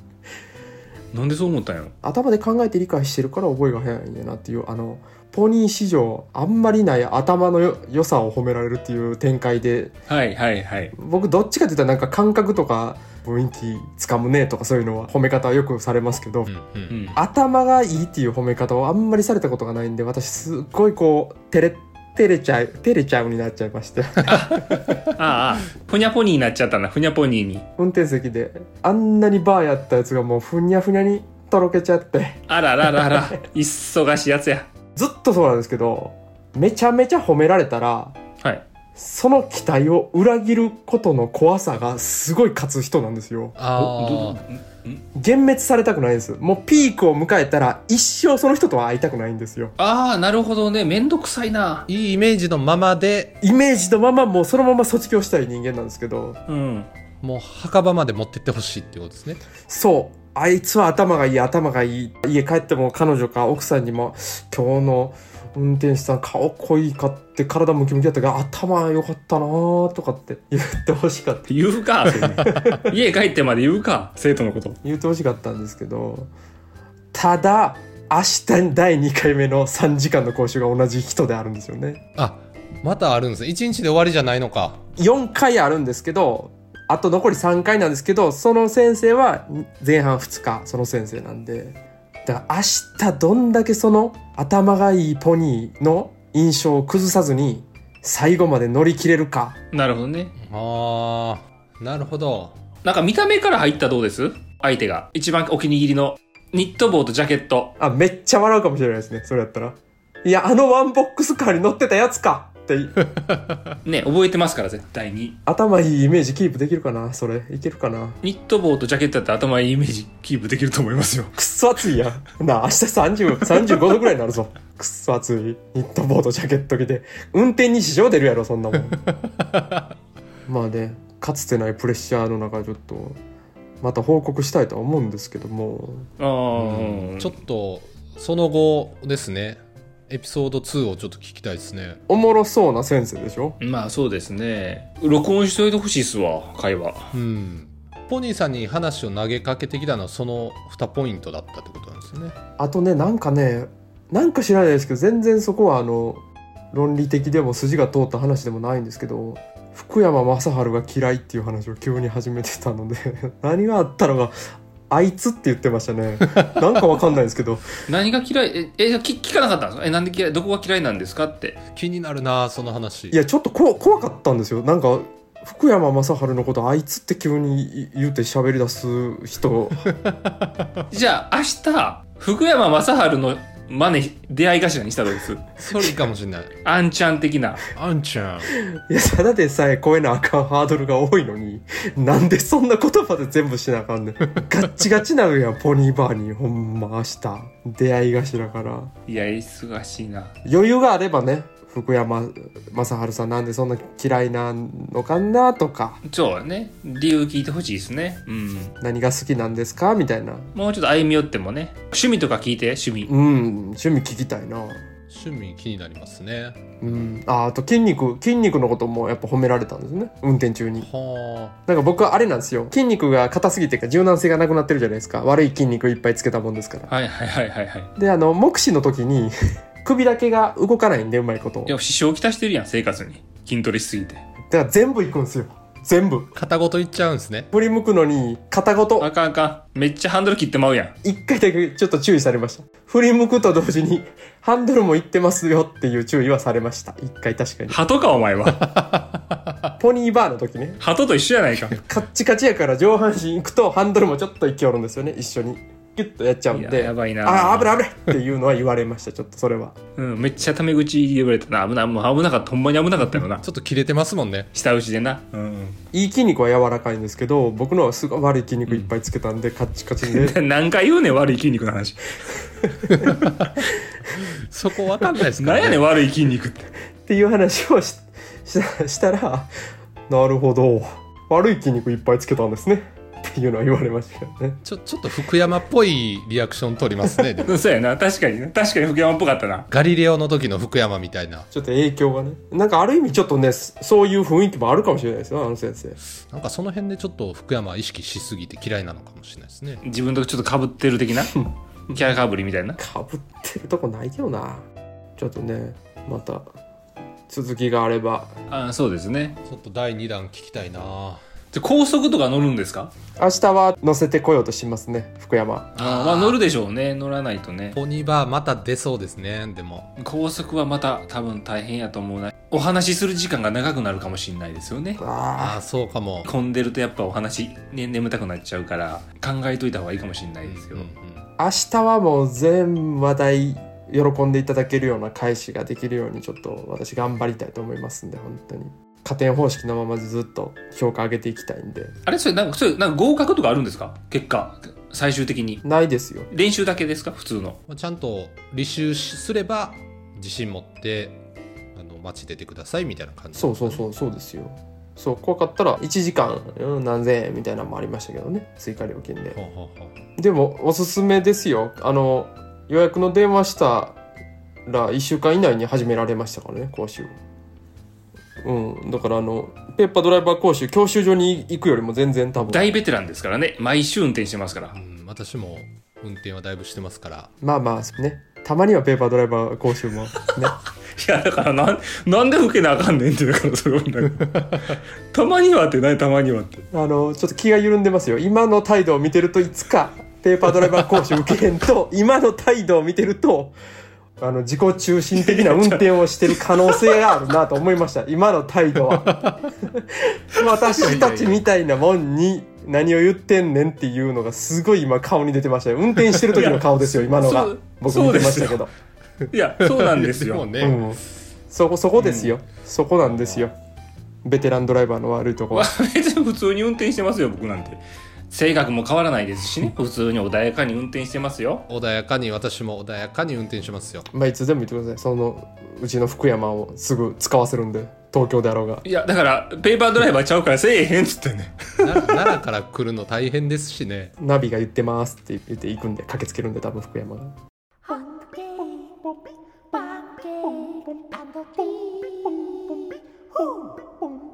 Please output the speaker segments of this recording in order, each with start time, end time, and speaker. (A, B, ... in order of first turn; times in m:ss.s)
0:01.1-0:01.9 A
0:02.0-0:09.9 B
0:10.1-0:10.9 A
0:11.0-0:16.5 B
0:16.5-0:17.1 C
0:16.9-0:17.2 A
0:17.2-0:24.6 B
0:24.3-0:27.6 A
0:27.8-0:33.4 B
0:32.5-0:34.7 A
0:35.0-0:38.2 B
0:39.0-0:43.6 B
0:43.6-0:44.4 C
0:43.7-0:45.0 A
0:45.1-0:49.7 B
0:49.8-0:51.9 A
0:51.9-0:53.4 C
0:53.4-0:56.4 B
0:56.5-0:56.9 A
0:57.2-0:59.4 C
0:59.7-1:11.5 B
1:11.5-1:14.8 A
1:12.2-1:12.9 B
1:14.8-1:16.3 B
1:17.1-1:22.0 B
1:22.2-1:24.8 C
1:25.0-1:39.6 B
1:39.7-1:40.3 A
1:40.4-1:42.6 C
1:42.8-1:47.7 A
1:47.8-1:53.1 B
1:53.3-1:53.6 C
1:53.8-1:55.4 A
1:55.4-1:58.2 B
1:58.2-2:01.4 A
2:01.4-2:09.1 B
2:09.4-2:09.8 C
2:10.5-2:13.2 B
2:13.8-2:16.1 B
2:16.2-2:17.4 A
2:16.5-2:22.0 C
2:22.1-2:23.6 B
2:23.6-2:27.1 A
2:27.1-2:32.4 C
2:32.6-2:44.4 B
2:44.9-2:47.8 B
2:47.9-2:51.6 A
2:51.7-2:53.2 C
2:53.1-2:59.9 B
2:59.8-3:00.8 C
3:00.9-3:05.4 A
3:05.6-3:06.5 C
3:06.6-3:07.6 A
3:07.7-3:08.5 C
3:08.5-3:18.9 B
3:19.1-3:20.3 A
3:20.4-3:26.0 B
3:26.0-3:28.7 A
3:28.8-3:30.5 B
3:30.5-3:33.1 A
3:33.1-3:34.8 B
3:35.1-3:37.1 C
3:36.8-3:40.9 B
3:40.8-3:41.5 C
3:41.7-3:46.9 B
3:46.9-3:47.9 A
3:48.0-3:51.7 B
3:51.7-3:54.2 A
3:54.5-3:56.3 B
3:56.3-3:57.5 C
3:57.5-3:59.1 B
3:59.0-4:00.9 A
4:01.0-4:07.8 B
4:07.7-4:08.7 A
4:08.6-4:09.6 C
4:09.8-4:10.8 B
4:10.8-4:11.8 A
4:11.7-4:19.8 B
4:16.5-4:17.8 A
4:20.0-4:23.4 A
4:23.4-4:24.5 C
4:24.5-4:25.8 A
4:25.9-4:30.4 B
4:30.0-4:32.1 A
4:33.0-4:33.6 C
4:34.2-4:35.8 C
4:35.4-4:36.7 A
4:37.0-4:39.5 B
4:40.1-4:44.6 B
4:44.6-4:47.6 C
4:47.4-4:49.7 A
4:49.7-4:51.5 C
4:51.5-4:56.0 B
4:56.3-4:59.8 C
4:59.8-5:02.8 A
5:02.8-5:04.6 B
5:05.2-5:06.5 B
5:07.3-5:08.3 B
5:08.5-5:09.4 A
5:09.4-5:11.2 C
5:11.5-5:12.9 A
5:13.2-5:15.7 B
5:15.8-5:16.4 C
5:15.8-5:17.8 A
5:17.7-5:19.9 C
5:20.0-5:25.0 A
5:25.0-5:25.6 B
5:25.4-5:26.3 C
5:26.2-5:30.9 A
5:30.4-5:31.3 C
5:31.4-5:41.9 B
5:42.0-5:45.6 A
5:45.6-5:46.3 B
5:46.3-5:47.6 A
5:47.7-5:51.2 C
5:51.7-5:53.8 C
5:53.4-5:59.4 B
5:59.3-6:00.0 C
6:00.2-6:04.0 B
6:04.6-6:07.1 B
6:08.4-6:12.7 B
6:12.4-6:14.8 A
6:14.7-6:17.3 C
6:17.4-6:20.5 B
6:21.0-6:26.7 A
6:26.7-6:33.5 B
6:34.2-6:48.7 B
6:35.2-6:36.9 A
6:39.0-6:39.5 C
6:40.7-6:41.4 C
6:46.3-6:48.6 A
6:49.3-6:50.5 A
6:49.6-6:50.8 C
6:50.6-6:53.5 B
6:52.0-6:52.3 A
6:53.1-6:53.4 C
6:54.2-6:55.7 B
6:55.5-7:01.6 A
7:01.7-7:04.1 C
7:04.1-7:08.8 B
7:08.8-7:12.1 A
7:11.8-7:14.1 C
7:14.2-7:17.3 B